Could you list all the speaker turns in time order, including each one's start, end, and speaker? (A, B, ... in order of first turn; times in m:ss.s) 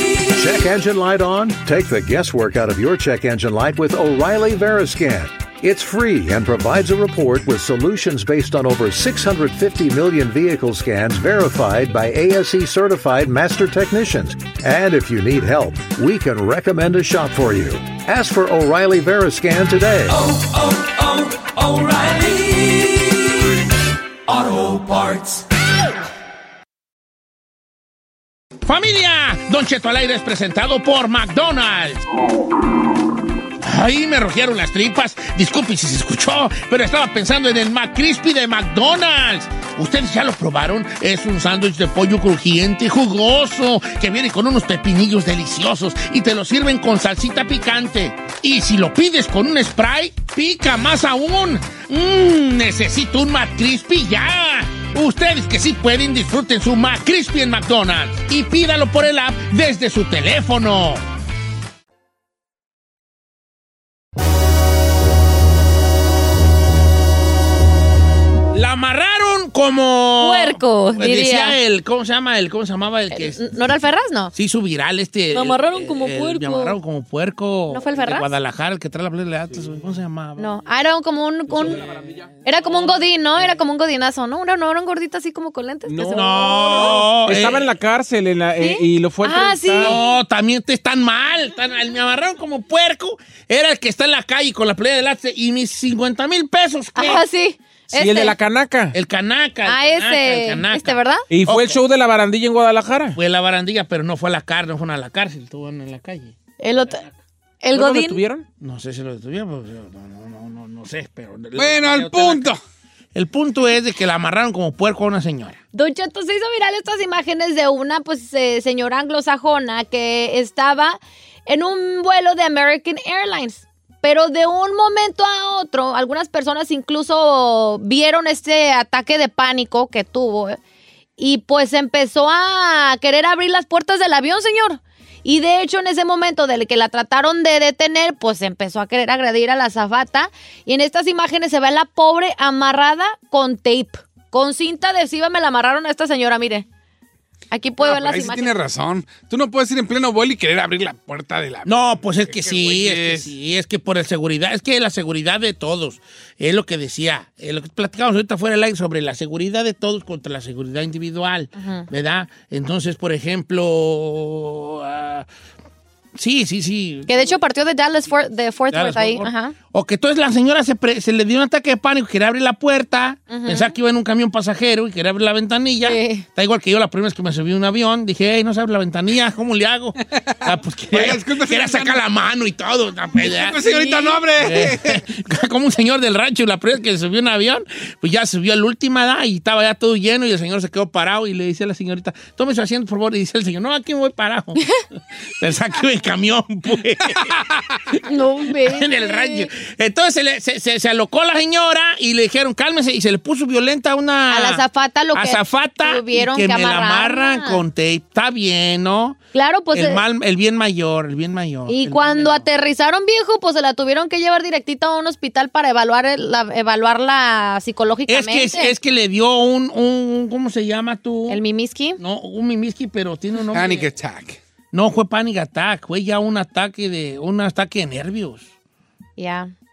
0:00.3-0:20.2 A
0:20.3-0:22.8 B
0:24.3-0:25.4 B
0:28.6-0:32.0 C
0:33.6-1:01.0 C
1:08.5-1:13.4 C
1:10.2-1:11.6 D
1:13.1-1:14.3 D
1:14.3-1:20.5 C
1:15.3-1:16.8 D
1:17.7-1:18.3 D
1:20.4-1:21.8 D
1:21.5-1:23.0 E
1:22.4-1:27.0 D
1:25.9-1:30.0 E
1:26.0-1:27.7 C
1:28.6-1:30.0 D
1:29.8-1:37.2 C
1:37.0-1:38.4 D
1:37.9-1:39.0 E
1:38.9-1:41.8 C
1:39.6-1:41.2 D
1:41.3-1:43.2 E
1:43.1-1:46.4 C
1:46.6-1:47.0 D
1:47.6-1:48.2 D
1:47.7-1:48.4 E
1:48.6-1:52.6 C
1:51.6-1:52.6 F
1:53.1-1:55.6 C
1:55.7-2:10.6 D
2:11.2-2:26.7 D
2:27.5-2:28.5 D
2:27.8-2:33.3 F
2:31.7-2:45.3 C
2:41.6-2:41.9 D
2:46.2-2:47.4 C
2:47.1-2:49.5 D
2:48.7-3:14.7 C
2:53.3-2:53.7 D
2:55.8-2:56.2 D
3:00.9-3:02.0 F
3:03.2-3:05.0 F
3:03.7-3:04.2 D
3:15.4-3:17.4 C
3:18.0-3:29.2 C
3:18.0-3:19.5 D
3:24.3-3:27.6 D
3:29.3-3:30.0 D
3:29.7-3:32.5 C
3:31.7-3:38.7 D
3:38.1-3:41.4 C
3:41.3-3:42.0 D
3:42.0-3:43.9 C
3:43.5-3:44.4 F
3:44.7-3:48.5 C
3:49.2-3:49.5 D